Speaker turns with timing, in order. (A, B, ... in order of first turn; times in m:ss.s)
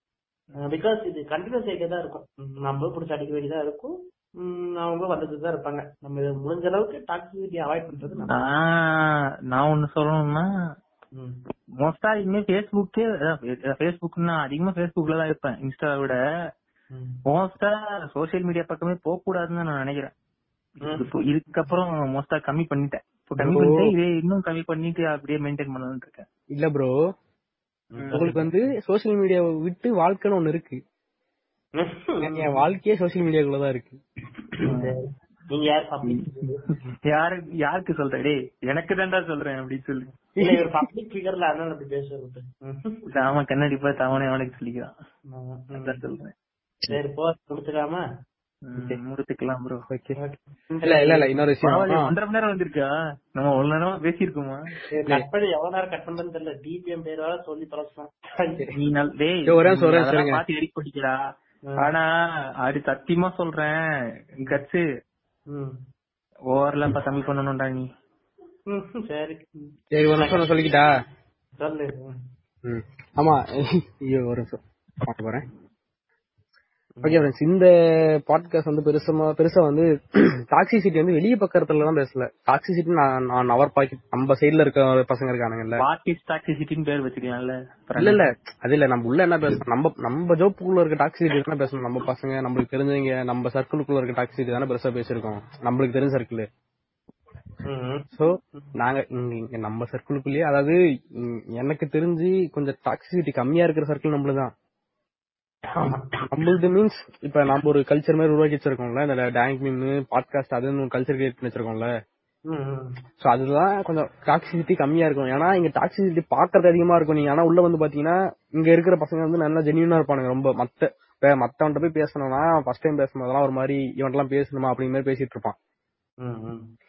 0:00.6-0:08.5 A
0:08.3-0:10.5 B
0:11.2-0:11.4 A
0:11.8-0:16.2 B
0:16.9-0:17.2 A
0:17.3-0:20.1 B
0:20.8-0:21.1 A
0:20.9-0:26.3 B
0:23.4-0:23.8 C
0:26.5-0:27.0 C
0:27.9-0:28.5 A
0:28.0-0:28.4 B
0:28.1-0:30.8 C
0:31.8-0:32.5 A
0:32.2-0:34.0 C
0:34.6-0:36.8 A
0:34.6-0:34.9 B
0:37.1-0:40.1 B
0:40.4-0:43.1 A
0:43.1-0:44.9 B
0:45.3-0:46.0 A
0:45.8-0:46.3 B
0:46.9-0:48.0 A
0:48.7-0:49.9 B
0:48.8-0:49.0 A
0:49.9-0:50.2 C
0:50.2-0:51.3 A
0:50.8-0:52.1 C
0:51.6-0:54.7 B
0:54.9-0:58.7 A
0:58.8-1:01.2 B
0:59.5-1:00.4 C
1:01.8-1:02.1 B
1:02.6-1:03.8 B
1:04.5-1:04.8 B
1:05.5-1:05.8 A
1:06.5-1:07.9 B
1:08.7-1:10.4 A
1:09.9-1:10.9 C
1:11.6-1:12.2 A
1:12.6-1:13.4 C
1:14.0-1:15.4 C
1:17.0-1:17.2 A
1:17.0-1:17.7 C
1:18.2-1:25.8 C
1:25.8-1:28.2 B
1:28.0-1:36.5 C
1:37.7-1:38.7 A
1:38.2-1:44.5 C
1:45.8-1:46.3 A
1:46.3-1:51.9 C
1:52.5-1:52.9 A
1:53.2-2:05.6 C
2:06.2-2:06.6 A